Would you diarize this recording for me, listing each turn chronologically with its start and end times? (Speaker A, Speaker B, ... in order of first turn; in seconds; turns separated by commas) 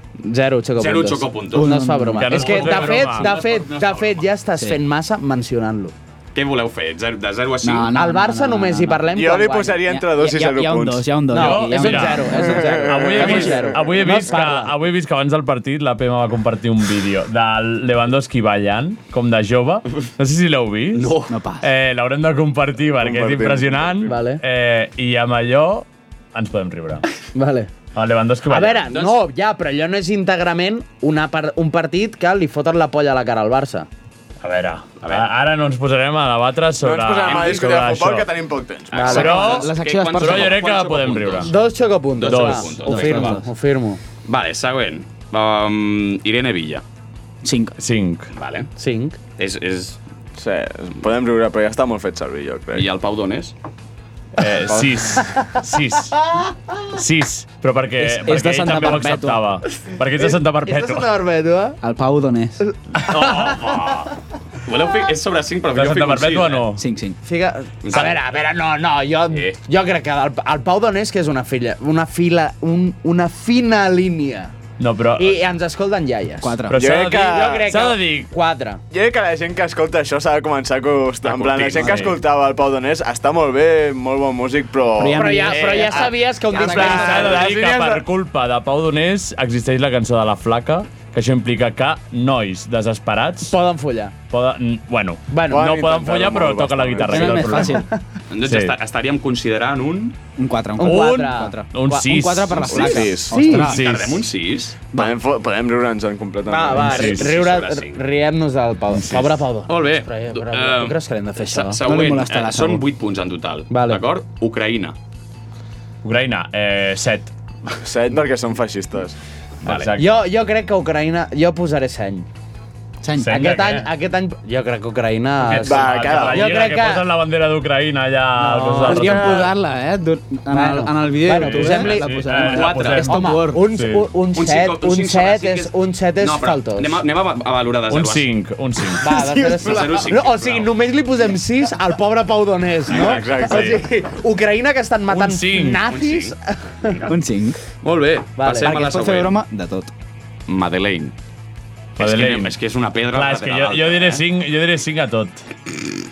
Speaker A: 0.2-5.9, Speaker B: 0.8-1.8, Speaker C: 1.5-2.6, Speaker D: 2.2-3.4, Speaker B: 2.4-4.2, Speaker B: 6.3-7.9, Speaker C: 7.6-9.1, Speaker A: 8.0-9.8, Speaker E: 9.1-11.1, Speaker C: 9.8-13.6, Speaker A: 11.3-14.7, Speaker D: 11.3-27.1, Speaker E: 12.4-13.7, Speaker B: 20.9-21.4, Speaker C: 21.3-21.6, Speaker E: 23.0-24.2, Speaker A: 24.1-24.4, Speaker A: 27.3-27.7, Speaker D: 27.9-29.0, Speaker A: 28.5-33.9, Speaker D: 34.4-38.3, Speaker B: 35.0-35.3, Speaker E: 36.8-39.4, Speaker B: 37.3-37.6, Speaker B: 38.9-41.6, Speaker A: 39.0-39.3, Speaker D: 39.0-41.5, Speaker C: 39.1-40.6, Speaker A: 41.4-44.0, Speaker B: 42.2-43.4, Speaker D: 42.3-43.0, Speaker C: 42.9-43.4, Speaker B: 44.3-46.8, Speaker C: 47.4-47.8, Speaker D: 47.8-48.3, Speaker B: 48.4-48.7, Speaker A: 48.8-49.2, Speaker B: 49.4-50.0, Speaker E: 50.4-52.9, Speaker B: 52.7-53.5, Speaker D: 54.4-56.3, Speaker D: 56.9-61.1, Speaker C: 58.0-59.4, Speaker A: 60.2-61.8, Speaker C: 61.8-62.6, Speaker A: 62.7-63.4, Speaker B: 63.0-64.1, Speaker B: 64.7-66.6, Speaker D: 65.7-66.8, Speaker C: 66.8-67.2, Speaker A: 67.2-74.5, Speaker B: 67.8-68.2, Speaker B: 69.3-69.6, Speaker D: 74.8-75.4, Speaker A: 75.2-76.6, Speaker C: 76.4-76.8, Speaker D: 76.7-78.3, Speaker E: 76.7-77.7, Speaker A: 77.1-78.8, Speaker E: 78.9-86.1, Speaker B: 81.3-81.9, Speaker D: 81.5-82.2, Speaker C: 85.0-87.5, Speaker A: 85.1-88.0, Speaker D: 86.6-93.5, Speaker E: 86.7-87.1, Speaker A: 93.5-94.1, Speaker D: 94.3-97.9, Speaker A: 95.3-95.7, Speaker E: 95.5-97.6, Speaker C: 97.1-97.9, Speaker B: 98.3-100.2, Speaker D: 98.4-98.8, Speaker C: 100.4-103.8, Speaker A: 100.8-102.1, Speaker D: 100.8-104.3, Speaker E: 102.7-103.5, Speaker A: 103.2-103.7, Speaker B: 103.4-104.8, Speaker E: 104.9-107.0, Speaker A: 106.5-111.8, Speaker D: 106.8-107.3, Speaker B: 106.9-108.0, Speaker D: 109.0-109.3, Speaker B: 109.7-115.0, Speaker C: 111.8-112.9, Speaker A: 113.7-114.0, Speaker D: 116.0-117.3, Speaker E: 117.8-119.2, Speaker B: 119.6-119.9, Speaker D: 119.7-120.2, Speaker A: 120.0-122.3, Speaker C: 123.0-123.5, Speaker D: 123.2-123.9, Speaker A: 123.3-127.0, Speaker D: 125.4-129.5, Speaker E: 125.6-126.7, Speaker C: 128.4-133.6, Speaker A: 128.8-129.3, Speaker A: 130.5-136.9, Speaker D: 131.4-134.1, Speaker B: 132.4-133.2, Speaker B: 134.3-138.3, Speaker D: 137.9-139.0, Speaker A: 139.0-147.0, Speaker C: 139.1-139.9, Speaker B: 139.6-140.7, Speaker B: 142.9-143.7, Speaker D: 142.9-143.8, Speaker D: 145.1-145.8, Speaker B: 145.9-147.2, Speaker C: 147.1-147.6, Speaker B: 147.8-149.4, Speaker A: 148.4-148.7, Speaker C: 148.5-149.9, Speaker B: 150.5-151.1, Speaker B: 152.0-154.2, Speaker D: 152.0-152.5, Speaker D: 153.1-155.4